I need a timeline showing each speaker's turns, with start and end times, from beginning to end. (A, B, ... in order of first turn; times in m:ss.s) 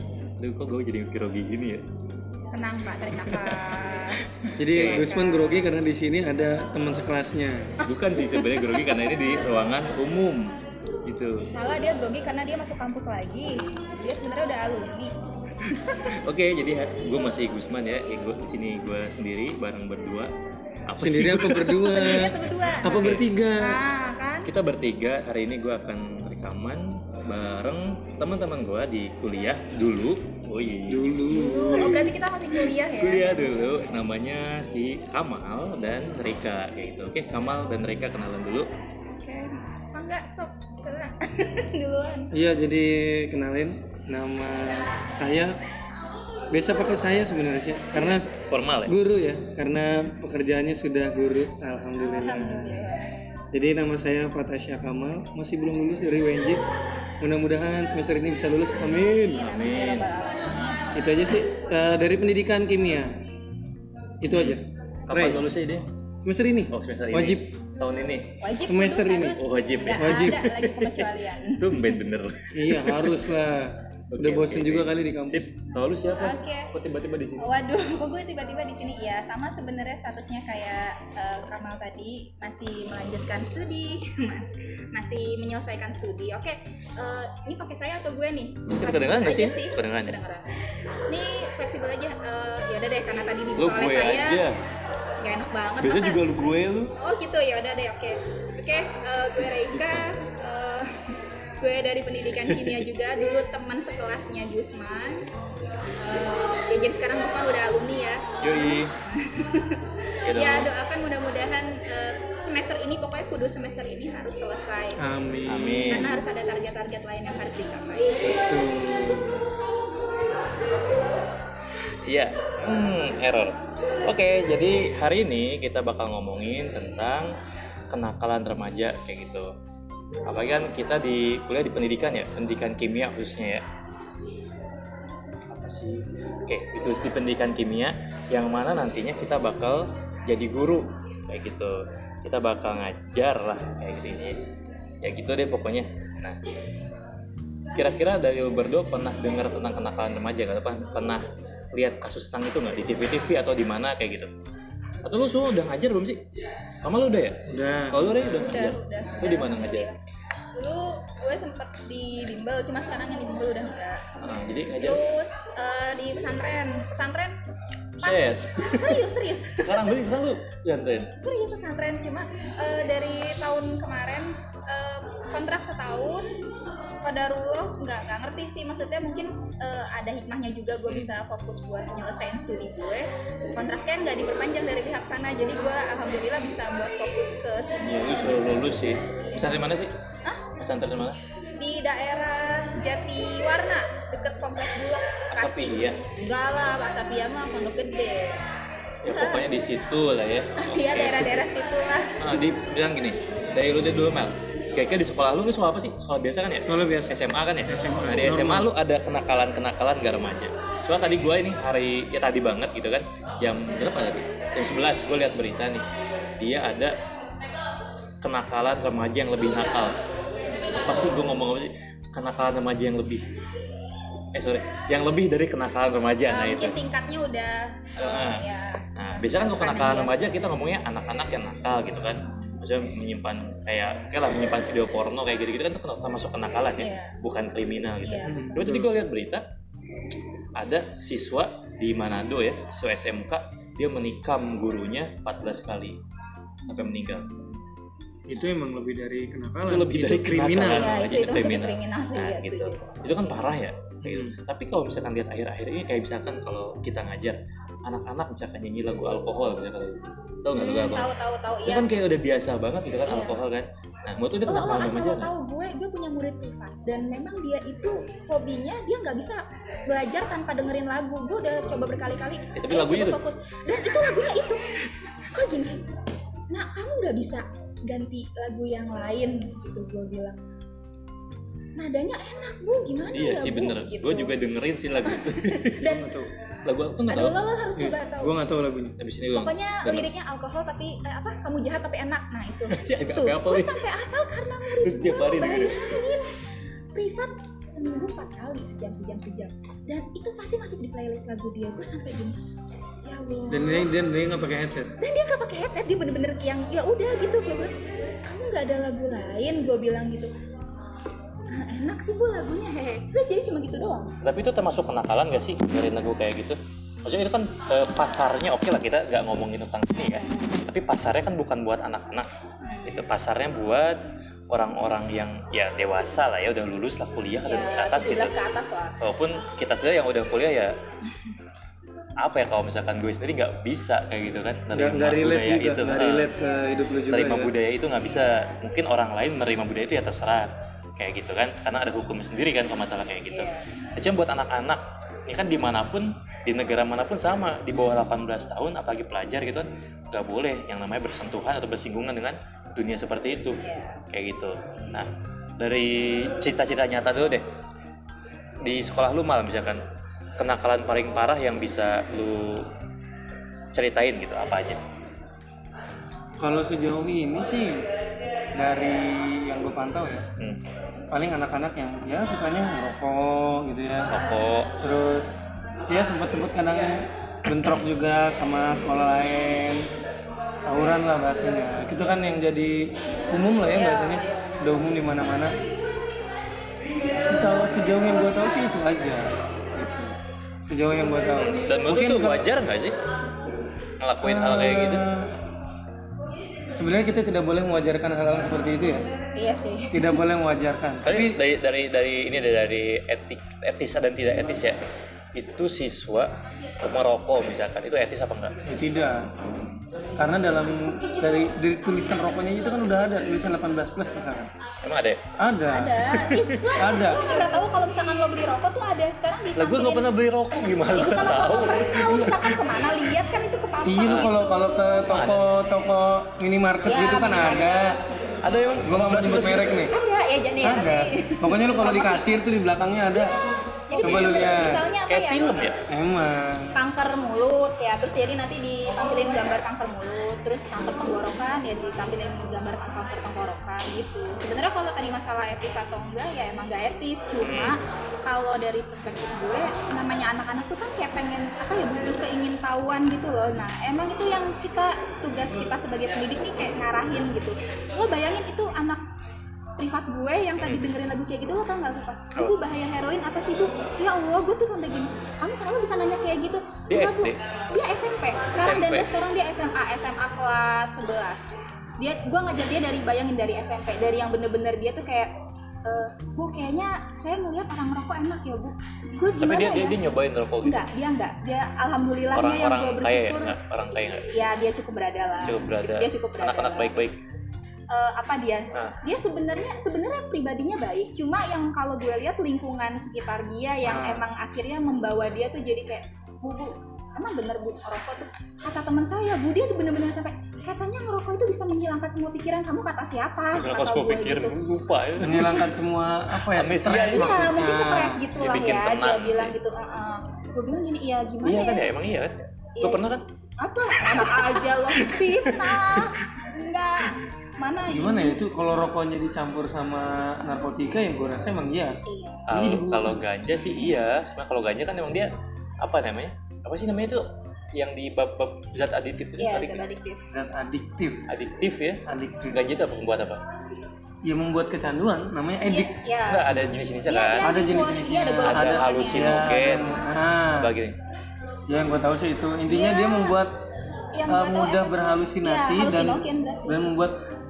0:00.4-0:01.8 A
0:02.5-0:05.5 B
0:03.1-0:05.1 A
0:04.6-0:07.8 C
0:07.8-0:11.5 A
0:08.0-0:09.1 B
0:11.5-0:16.2 B
0:16.1-0:20.3 A
0:20.9-0:23.2 A
0:21.0-0:23.8 C
0:21.9-0:24.5 B
0:24.5-0:31.1 A
0:30.9-0:32.2 C
0:31.3-0:33.6 B
0:32.9-0:38.7 A
0:39.1-0:42.3 B
0:42.3-0:45.6 C
0:46.5-0:48.4 C
0:48.5-0:48.9 A
0:48.9-0:52.7 C
0:52.0-0:53.2 B
0:53.5-0:56.6 C
0:57.2-0:59.2 C
0:58.9-1:00.8 B
0:59.0-1:00.1 A
1:01.0-1:03.2 C
1:04.2-1:05.5 C
1:04.3-1:05.9 A
1:06.2-1:07.5 C
1:06.7-1:08.4 A
1:08.4-1:12.0 B
1:08.6-1:09.4 C
1:09.4-1:13.2 A
1:10.0-1:10.4 C
1:12.5-1:15.5 C
1:14.1-1:17.5 A
1:16.2-1:16.7 B
1:17.4-1:30.5 B
1:28.7-1:30.1 A
1:31.1-1:34.4 B
1:33.6-1:34.6 A
1:35.2-1:36.2 B
1:35.8-1:36.9 A
1:37.0-1:45.3 B
1:42.4-1:42.8 A
1:46.0-1:55.0 B
1:48.4-1:48.9 A
1:50.2-1:50.7 A
1:55.0-1:56.1 C
1:55.5-1:56.2 A
1:55.9-1:58.3 B
1:58.2-1:59.5 C
2:02.0-2:07.4 A
2:07.9-2:09.5 A
2:10.3-2:13.6 A
2:15.5-2:24.4 A
2:25.0-2:26.4 A
2:27.8-2:34.3 A
2:35.0-2:36.2 A
2:36.8-2:39.9 A
2:37.5-2:38.1 C
2:38.3-2:40.0 B
2:40.6-2:44.0 B
2:44.2-2:45.0 A
2:44.8-2:47.4 B
2:48.0-2:49.9 B
2:48.0-2:49.0 A
2:49.6-2:51.1 A
2:51.2-2:56.3 B
2:57.0-3:09.6 B
3:07.8-3:09.9 A
3:10.6-3:11.2 A
3:11.6-3:18.4 B
3:15.3-3:16.0 A
3:19.0-3:21.5 A
3:19.1-3:19.5 B
3:20.6-3:22.2 B
3:22.2-3:35.8 A
3:26.6-3:28.7 C
3:36.4-3:37.0 A
3:38.2-3:40.0 A
3:40.7-3:43.2 A
3:44.3-3:46.8 A
3:46.3-3:50.2 B
3:48.0-3:48.4 A
3:49.0-3:59.4 A
3:56.8-3:57.2 B
3:58.0-3:58.6 B
3:58.3-3:58.9 C
4:00.6-4:06.0 A
4:06.6-4:07.3 A
4:06.7-4:07.0 B
4:08.3-4:11.0 C
4:09.7-4:21.1 A
4:10.6-4:13.1 B
4:14.0-4:14.4 C
4:20.5-4:22.0 B
4:21.7-4:25.3 A
4:23.1-4:23.4 B
4:24.5-4:36.0 B
4:32.6-4:33.2 A
4:36.5-4:40.4 B
4:41.8-4:44.3 B
4:43.1-4:45.8 A
4:45.0-4:46.1 B
4:45.8-4:46.3 C
4:46.6-4:47.4 A
4:47.1-4:48.3 B
4:47.8-4:49.0 C
4:49.0-4:50.1 A
4:49.4-4:56.3 B
4:52.7-4:53.9 A
4:54.8-4:56.0 A
4:56.9-5:02.4 B
5:03.0-5:03.9 B
5:03.5-5:05.0 C
5:05.0-5:10.3 B
5:11.5-5:14.1 B
5:14.2-5:22.3 A
5:20.0-5:20.6 B
5:22.6-5:23.0 B
5:22.9-5:28.3 A
5:27.5-5:29.0 B
5:29.0-5:30.8 A
5:32.2-5:36.3 A
5:34.7-5:37.5 C
5:36.3-5:37.0 B
5:37.1-5:57.4 A
5:38.1-5:38.6 B
5:43.3-5:43.7 B
5:53.6-5:54.0 B
5:58.6-5:59.8 A
6:00.4-6:02.7 A
6:03.7-6:04.8 A
6:06.4-6:07.9 C
6:08.6-6:10.3 C
6:11.1-6:14.1 C
6:14.1-6:14.7 A
6:14.8-6:15.3 C
6:15.9-6:19.9 C
6:17.5-6:17.8 A
6:20.6-6:25.6 C
6:23.7-6:24.6 B
6:27.2-6:30.1 C
6:30.6-6:32.5 C
6:31.6-6:33.0 A
6:34.0-6:35.1 A
6:34.2-6:35.4 C
6:36.7-6:39.0 C
6:39.4-6:40.2 B
6:39.9-6:41.4 C
6:41.0-6:44.8 A
6:45.4-6:48.5 A
6:48.7-6:49.3 C
6:50.2-6:54.5 C
6:54.8-6:55.2 A
6:55.4-6:56.0 C
6:55.7-7:05.1 B
6:56.2-6:56.6 A
6:56.8-6:57.2 C
6:59.6-7:02.6 A
7:03.8-7:08.0 C
7:04.0-7:04.4 A
7:05.1-7:05.4 A
7:06.9-7:07.9 B
7:08.4-7:09.8 A
7:08.8-7:10.0 C
7:09.9-7:12.2 B
7:10.6-7:13.4 C
7:13.9-7:15.6 B
7:14.0-7:14.8 C
7:14.0-7:15.8 A
7:15.9-7:16.8 C
7:16.7-7:39.0 B
7:27.4-7:27.8 A
7:39.8-7:55.3 B
7:40.6-7:40.9 A
7:46.9-7:47.4 A
7:48.5-7:49.1 A
7:55.8-8:00.0 B
7:59.4-8:00.9 A
8:00.6-8:03.6 B
8:02.3-8:04.3 A
8:04.3-8:06.9 B
8:05.4-8:07.2 A
8:07.9-8:24.6 B
8:13.8-8:14.2 C
8:23.5-8:25.6 A
8:25.2-8:28.2 C
8:26.5-8:27.5 A
8:27.1-8:31.9 B
8:28.4-8:29.6 A
8:31.4-8:33.2 A
8:32.8-8:33.0 B
8:33.6-8:38.4 B
8:37.9-8:42.0 C
8:42.1-8:42.5 B
8:42.5-8:49.8 A
8:42.5-8:43.2 C
8:49.4-8:50.2 B
8:50.3-8:51.3 C
8:51.3-8:53.4 A
8:52.1-8:52.6 C
8:54.2-8:56.0 C
8:55.7-8:56.5 B
8:56.3-8:57.5 A
8:57.1-8:59.4 B
8:57.4-9:00.7 C
8:58.4-9:00.0 A
9:00.6-9:01.0 A
9:01.7-9:03.6 C
9:02.7-9:03.4 B
9:04.2-9:06.8 B
9:04.3-9:07.2 C